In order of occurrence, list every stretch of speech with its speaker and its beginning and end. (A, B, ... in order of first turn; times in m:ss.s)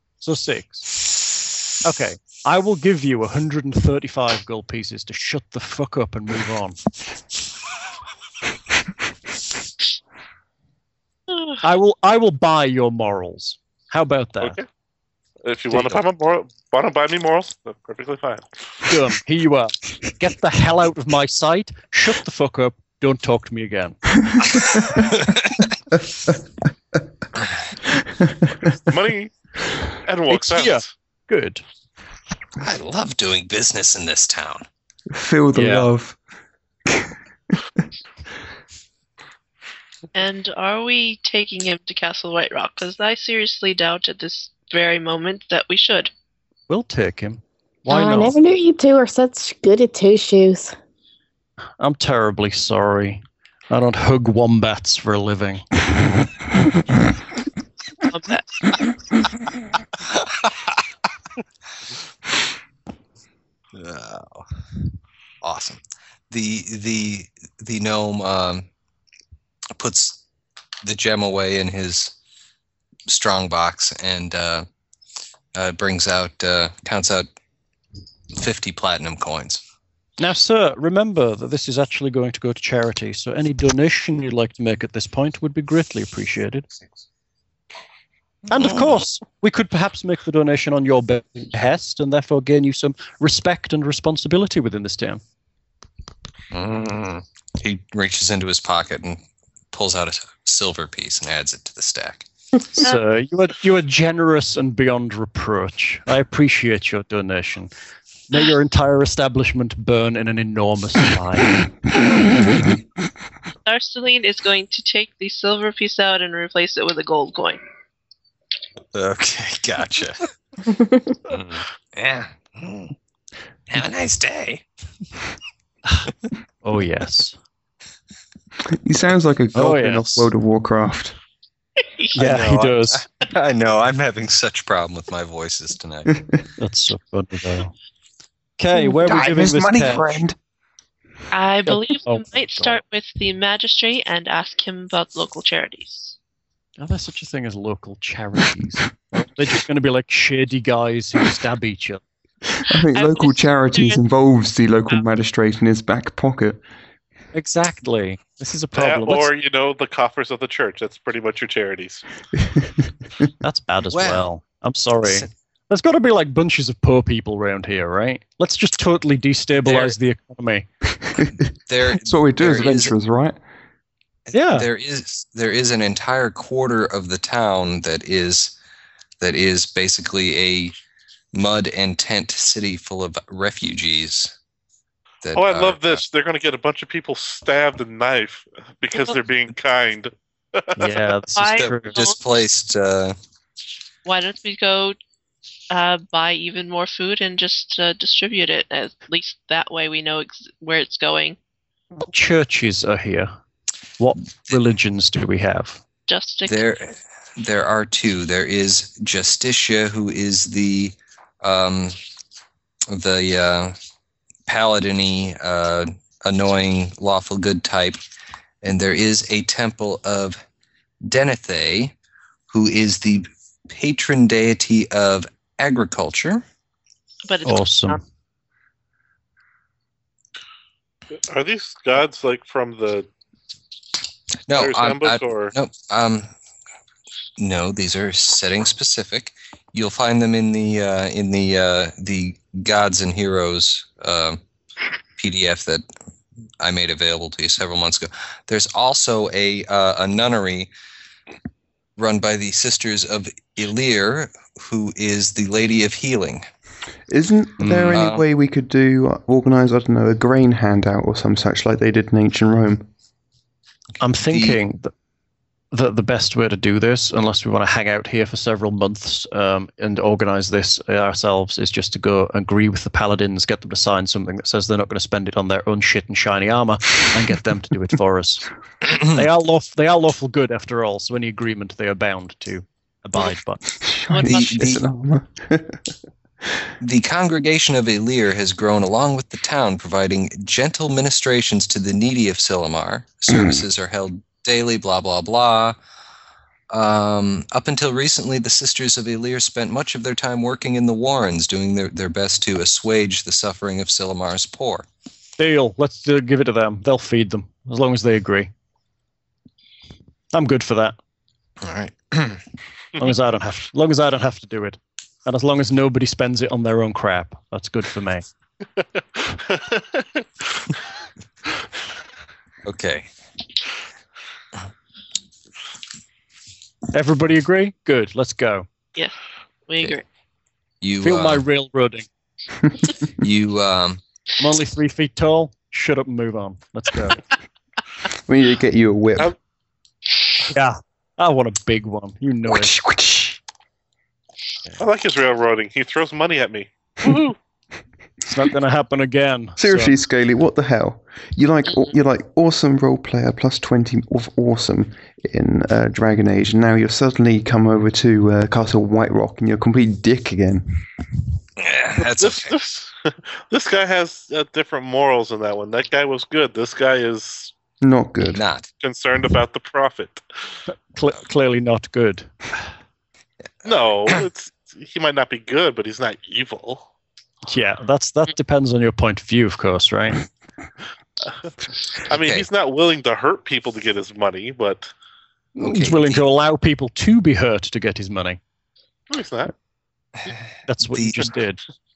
0:00.2-0:01.0 A
0:01.8-0:06.8 A
0:11.6-0:14.6 A
0:14.4-0:14.7 B
0:15.4-0:18.5 B
0:15.7-0:16.0 A
0:18.8-0:24.1 A
0:24.3-0:24.8 C
0:24.6-0:25.7 D
0:27.4-0:27.7 D
0:27.9-0:28.7 C
0:28.8-0:29.3 B
0:30.0-0:30.9 B
0:30.3-0:31.6 A
0:32.6-0:34.6 D
0:35.1-0:36.2 C
0:35.5-0:35.9 A
0:36.9-0:37.8 C
0:40.1-0:46.1 E
0:46.7-0:48.4 A
0:47.9-0:50.7 F
0:51.8-0:55.7 A
0:58.0-0:59.0 E
1:00.0-1:00.8 D
1:03.7-1:04.5 D
1:05.4-1:08.7 D
1:09.7-1:10.2 D
1:10.8-1:12.1 D
1:13.1-1:14.7 D
1:15.5-1:17.3 D
1:18.4-1:19.6 D
1:20.2-1:26.7 A
1:28.5-1:35.2 A
1:28.5-1:28.9 D
1:36.5-1:42.3 D
1:42.7-1:47.7 A
1:48.3-1:51.6 A
1:53.6-1:57.6 E
1:58.9-2:00.3 D
2:01.3-2:02.9 D
2:03.7-2:04.6 D
2:06.6-2:07.4 A
2:08.7-2:11.2 C
2:09.5-2:10.3 A
2:12.1-2:13.0 A
2:13.2-2:16.1 D
2:16.6-2:17.8 A
2:18.6-2:20.2 A
2:19.0-2:20.4 C
2:21.3-2:26.2 E
2:21.6-2:22.8 A
2:26.8-2:32.0 A
2:32.6-2:36.6 C
2:32.9-2:34.0 E
2:37.3-2:39.3 A
2:38.7-2:42.0 B
2:42.4-2:42.9 C
2:43.4-2:50.7 A
2:43.9-2:44.2 D
2:45.0-2:45.3 D
2:49.6-2:49.9 D
2:51.0-2:51.4 C
2:51.7-2:52.9 D
2:51.9-2:53.4 C
2:54.3-2:58.6 D
2:54.3-2:54.7 A
2:59.2-3:00.7 D
3:01.3-3:04.3 D
3:05.2-3:06.0 D
3:05.3-3:11.0 B
3:10.8-3:12.0 A
3:11.3-3:12.2 E
3:11.5-3:13.2 D
3:14.0-3:15.0 E
3:15.7-3:21.4 E
3:22.0-3:23.3 A
3:24.0-3:25.8 A
3:26.1-3:26.6 E
3:26.4-3:32.0 D
3:32.9-3:33.8 D
3:34.5-3:38.0 D
3:38.6-3:40.4 D
3:41.0-3:41.9 D
3:42.5-3:46.4 D
3:47.3-3:48.0 E
3:47.4-3:48.0 A
3:51.1-3:53.1 B
3:54.5-3:56.3 D
3:54.5-3:55.5 B
3:57.4-4:04.4 D
4:05.2-4:05.8 D
4:06.6-4:10.7 D
4:12.0-4:16.4 D
4:17.1-4:22.9 C
4:17.6-4:18.2 D
4:24.0-4:24.9 A
4:24.3-4:24.6 D
4:25.7-4:43.6 A
4:38.8-4:39.2 D
4:43.8-4:45.8 C
4:44.1-4:44.5 E
4:44.3-4:44.8 D
4:46.8-4:55.8 D
4:53.3-4:53.6 C
4:56.7-5:04.9 D
5:05.4-5:08.5 A
5:10.3-5:11.0 A
5:11.6-5:12.4 D
5:13.0-5:18.2 A
5:18.8-5:20.7 B
5:22.6-5:23.1 D
5:26.9-5:28.7 A
5:29.7-5:30.0 E
5:30.8-5:31.4 D
5:31.0-5:32.1 A
5:33.2-5:34.0 D
5:34.4-5:37.2 A
5:38.1-5:39.3 C
5:40.5-5:42.7 A
5:42.5-5:43.4 C
5:44.8-5:47.4 B
5:48.2-5:49.9 A
5:49.6-6:00.9 C
6:01.6-6:02.6 D
6:02.1-6:07.5 B
6:07.8-6:08.4 C
6:08.3-6:08.7 D
6:08.8-6:10.2 B
6:10.7-6:12.3 A
6:13.6-6:16.9 B
6:13.7-6:14.2 D
6:17.4-6:20.2 A
6:21.2-6:21.5 B
6:22.0-6:24.9 B
6:22.1-6:22.5 D
6:25.6-6:28.4 A
6:25.6-6:26.2 D
6:29.1-6:29.5 B
6:30.7-6:31.6 A
6:30.9-6:31.3 D